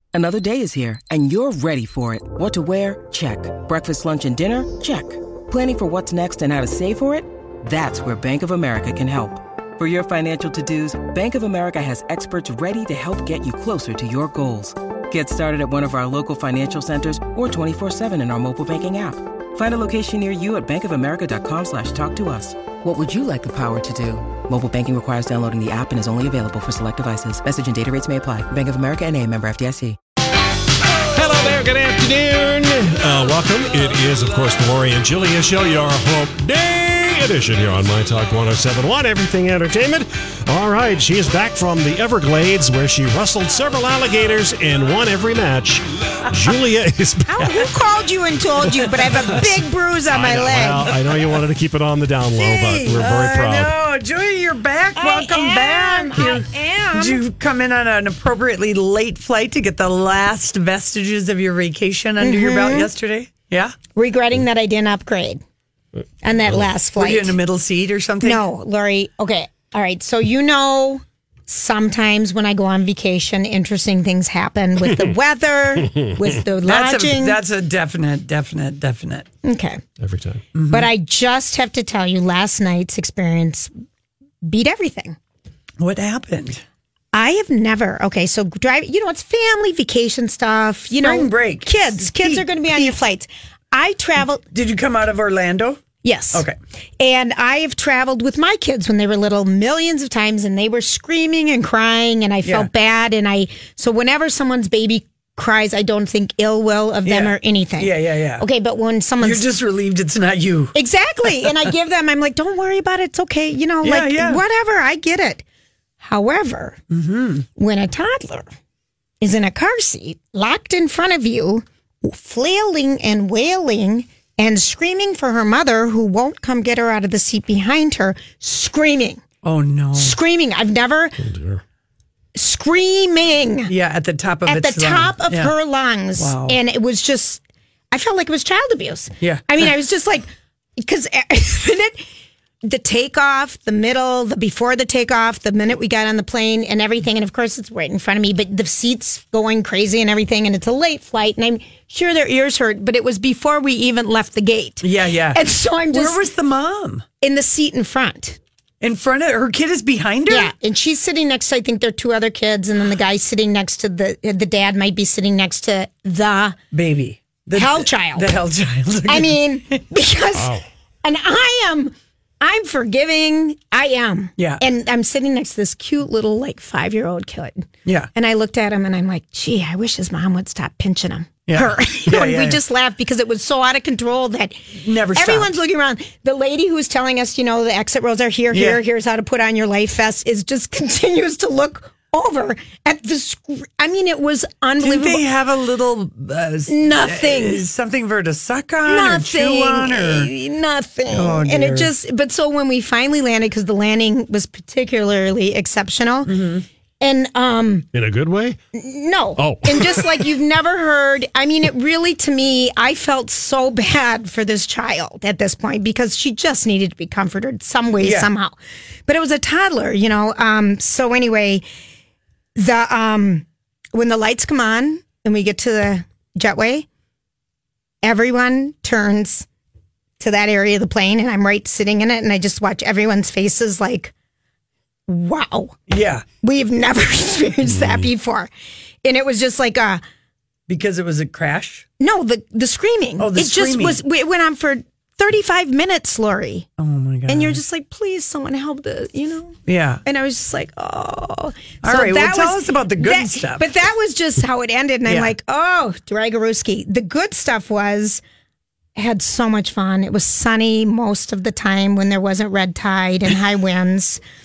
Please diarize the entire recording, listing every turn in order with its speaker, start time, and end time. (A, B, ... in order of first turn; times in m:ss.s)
0:00.1-0:30.0 A
0:31.1-0:47.7 B
0:47.3-0:50.9 C
0:48.8-0:49.6 B
0:50.1-0:53.7 B
0:52.3-1:03.8 D
0:55.0-0:57.2 C
1:02.2-1:02.9 C
1:03.9-1:05.4 C
1:06.2-1:07.4 C
1:07.0-1:08.4 D
1:08.2-1:17.4 C
1:16.6-1:19.3 D
1:19.4-1:19.8 C
1:20.0-1:20.4 B
1:20.6-1:20.9 D
1:20.7-1:23.7 C
1:24.4-1:25.2 C
1:25.8-1:26.6 D
1:27.1-1:34.4 C
1:30.9-1:33.0 D
1:34.5-1:36.6 D
1:36.0-1:36.4 C
1:37.0-1:49.4 C
1:42.4-1:42.7 D
1:47.0-1:48.4 D
1:49.2-1:50.7 D
1:50.7-1:55.4 C
1:53.8-1:54.4 D
1:56.0-1:56.8 C
1:56.9-1:57.5 D
1:57.6-1:58.5 C
1:59.2-2:09.2 C
2:09.4-2:10.2 D
2:10.0-2:11.2 C
2:11.2-2:11.6 B
2:12.4-2:13.7 C
2:13.7-2:15.5 D
2:14.5-2:22.0 C
2:16.2-2:16.6 D
2:19.2-2:19.6 D
2:22.6-2:36.2 C
2:34.8-2:37.0 D
2:37.2-2:38.4 C
2:38.8-2:40.5 D
2:40.3-2:46.6 C
2:46.7-2:49.8 D
2:47.6-2:48.3 C
2:49.1-3:15.2 C
3:01.5-3:02.6 D
3:04.7-3:05.5 D
3:08.5-3:08.8 D
3:14.8-3:20.3 D
3:16.7-3:17.6 C
3:18.8-3:26.3 C
3:21.1-3:21.9 D
3:26.3-3:26.6 D
3:27.0-3:27.9 C
3:27.9-3:28.6 B
3:28.7-3:41.6 C
3:29.4-3:30.3 B
3:38.0-3:38.3 D
3:42.6-3:46.9 C
3:48.0-3:49.5 C
3:50.2-3:54.1 C
3:55.1-3:55.8 C
3:55.9-3:56.2 D
3:56.4-3:58.5 C
3:57.7-3:58.1 B
3:59.0-4:00.0 C
4:00.7-4:01.9 D
4:02.0-4:06.7 C
4:03.2-4:04.0 D
4:06.8-4:07.6 D
4:07.3-4:18.2 C
4:09.7-4:10.0 D
4:11.8-4:13.7 D
4:15.1-4:15.3 D
4:19.0-4:24.2 C